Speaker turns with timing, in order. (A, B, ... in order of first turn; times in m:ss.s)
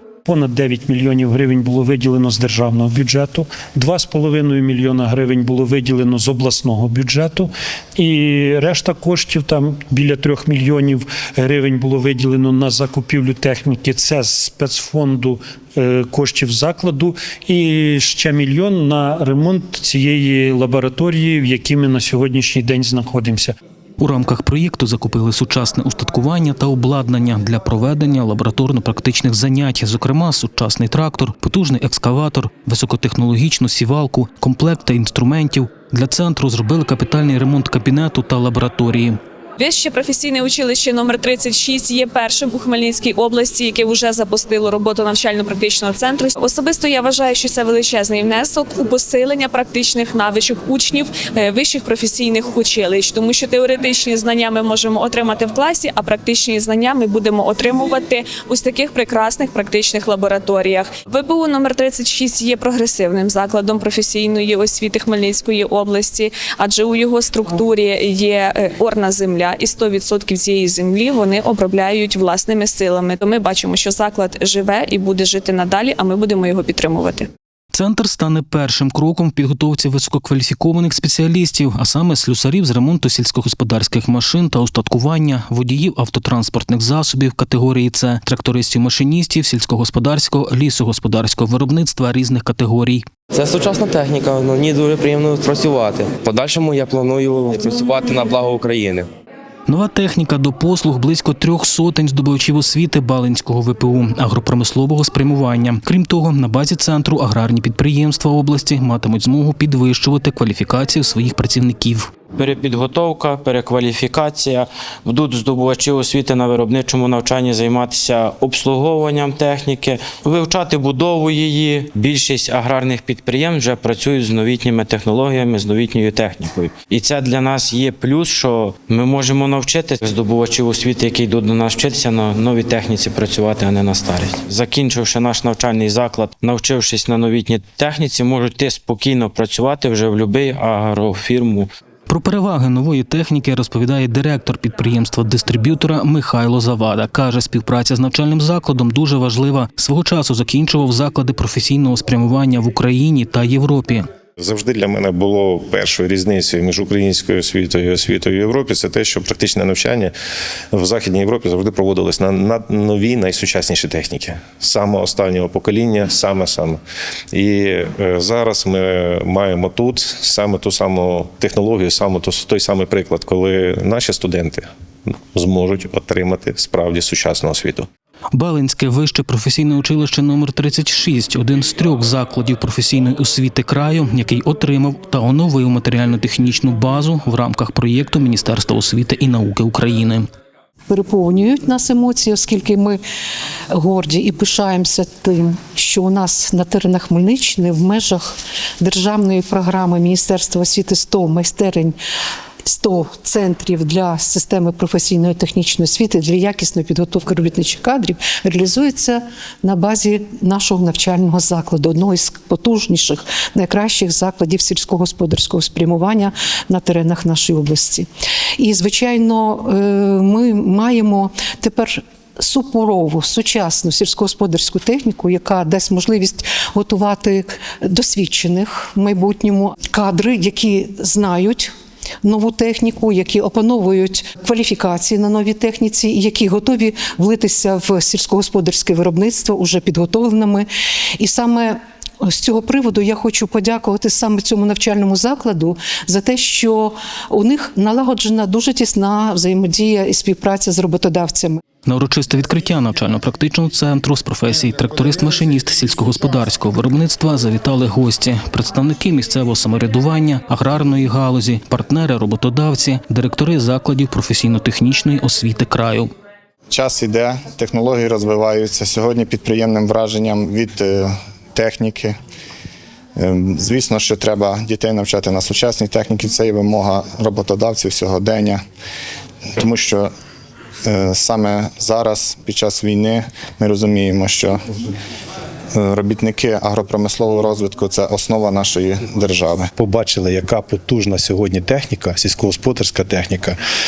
0:00.2-0:23.6 A
0:24.0-0:39.2 B
0:39.6-1:17.3 C
1:17.7-1:33.0 B
1:33.3-1:39.1 D
1:39.7-1:52.1 B
1:52.4-2:21.7 E
2:22.1-2:34.1 B
2:34.4-2:40.1 F
2:40.7-2:46.8 F
2:47.3-2:57.9 F
2:58.3-3:10.2 B
3:10.9-3:13.0 G
3:13.7-3:22.0 G
3:22.7-3:38.1 G
3:38.6-3:51.7 G
3:52.2-4:00.7 G
4:01.2-4:11.6 G
4:11.8-4:26.1 B
4:26.7-4:32.2 H
4:33.2-4:38.6 H
4:39.6-4:40.1 H
4:40.8-4:44.6 H
4:45.8-4:49.7 H
4:49.8-4:53.6 I